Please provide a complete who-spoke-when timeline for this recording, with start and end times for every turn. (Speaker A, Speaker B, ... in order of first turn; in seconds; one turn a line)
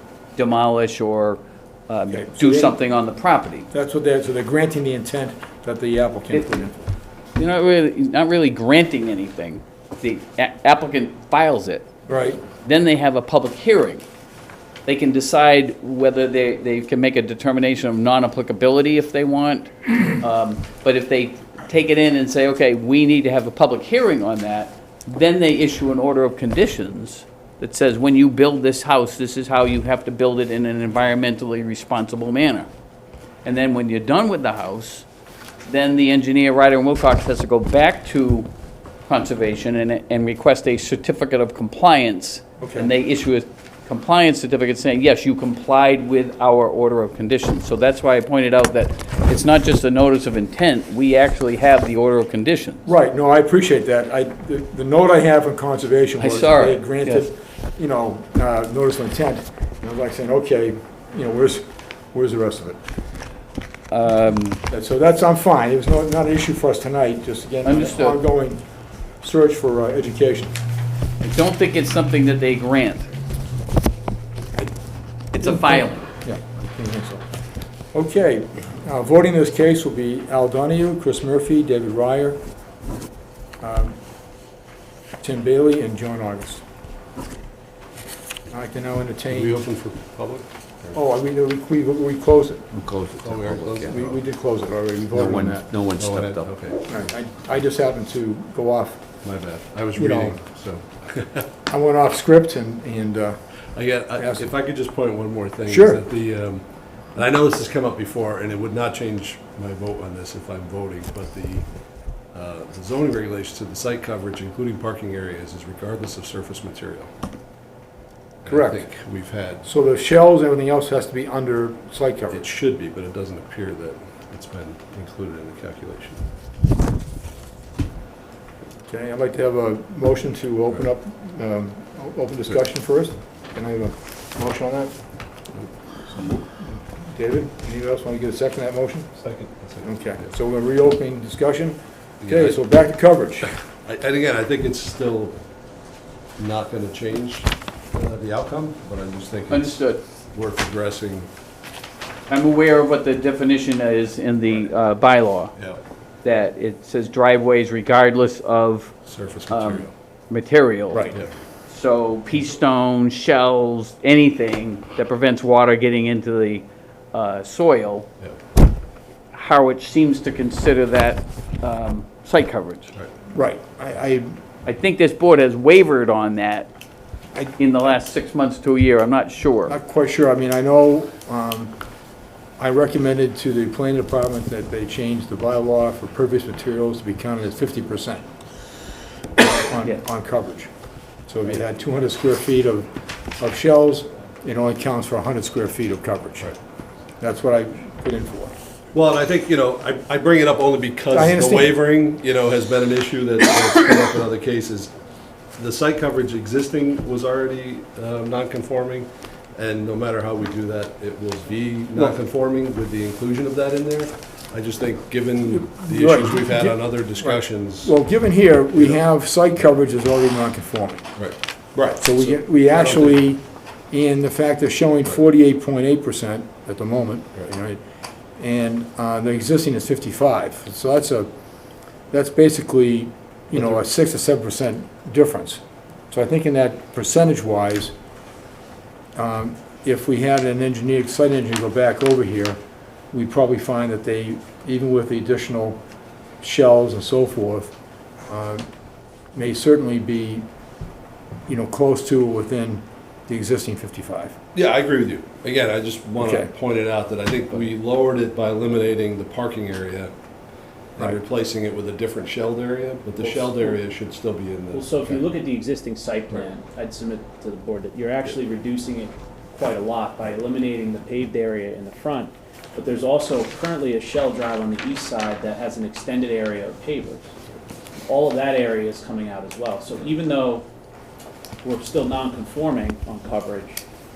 Speaker A: 0.4-3.7
Speaker B: 2.1-2.8
Speaker B: 3.7-6.8
Speaker A: 7.3-11.9
Speaker B: 12.1-12.4
Speaker A: 12.6-14.0
Speaker A: 14.9-32.7
Speaker A: 33.5-35.1
Speaker A: 35.7-38.5
Speaker A: 39.1-52.8
Speaker B: 42.6-42.9
Speaker B: 52.9-62.8
Speaker A: 56.2-57.3
Speaker A: 63.9-64.6
Speaker B: 64.7-68.6
Speaker A: 67.6-68.2
Speaker B: 69.2-70.5
Speaker A: 71.2-73.1
Speaker A: 75.3-76.1
Speaker B: 75.4-77.2
Speaker B: 77.9-82.4
Speaker B: 83.6-84.0
Speaker B: 85.2-86.6
Speaker B: 88.5-89.6
Speaker C: 89.3-91.0
Speaker B: 90.9-92.7
Speaker D: 92.7-94.0
Speaker C: 93.2-94.2
Speaker B: 93.9-95.7
Speaker D: 95.1-96.6
Speaker C: 96.0-96.8
Speaker B: 96.9-99.0
Speaker C: 99.2-101.5
Speaker B: 100.0-100.4
Speaker B: 101.7-103.4
Speaker C: 103.8-106.6
Speaker B: 104.2-104.4
Speaker B: 105.7-106.0
Speaker C: 107.2-111.7
Speaker C: 112.3-117.1
Speaker C: 118.4-119.7
Speaker B: 118.5-118.8
Speaker B: 119.7-122.5
Speaker C: 122.3-126.2
Speaker B: 128.9-134.9
Speaker B: 136.1-139.1
Speaker C: 139.2-139.9
Speaker B: 139.8-143.5
Speaker C: 142.2-142.6
Speaker C: 143.7-145.4
Speaker C: 146.4-149.8
Speaker A: 149.5-150.1
Speaker C: 150.3-151.3
Speaker A: 152.3-155.6
Speaker A: 156.2-159.0
Speaker C: 159.1-159.9
Speaker A: 159.5-161.2
Speaker A: 161.7-168.1
Speaker A: 169.3-172.9
Speaker B: 173.3-174.3
Speaker A: 174.7-176.7
Speaker A: 177.6-179.8
Speaker B: 179.7-181.8
Speaker B: 182.6-188.2
Speaker B: 189.4-190.7
Speaker B: 191.3-196.5
Speaker B: 197.2-198.5
Speaker C: 198.9-204.9
Speaker B: 201.1-201.8
Speaker C: 205.6-217.9
Speaker B: 215.6-221.1
Speaker C: 221.2-223.2
Speaker B: 222.0-227.8
Speaker B: 228.4-231.3
Speaker B: 232.1-237.9
Speaker B: 239.2-242.6
Speaker B: 243.1-245.8
Speaker B: 246.4-247.7
Speaker B: 248.3-248.7
Speaker B: 249.3-250.5
Speaker B: 251.5-254.4
Speaker C: 254.6-260.1
Speaker B: 256.2-256.5
Speaker C: 261.0-265.2
Speaker E: 263.4-263.7
Speaker E: 264.7-277.4
Speaker E: 278.0-280.6
Speaker E: 281.6-283.8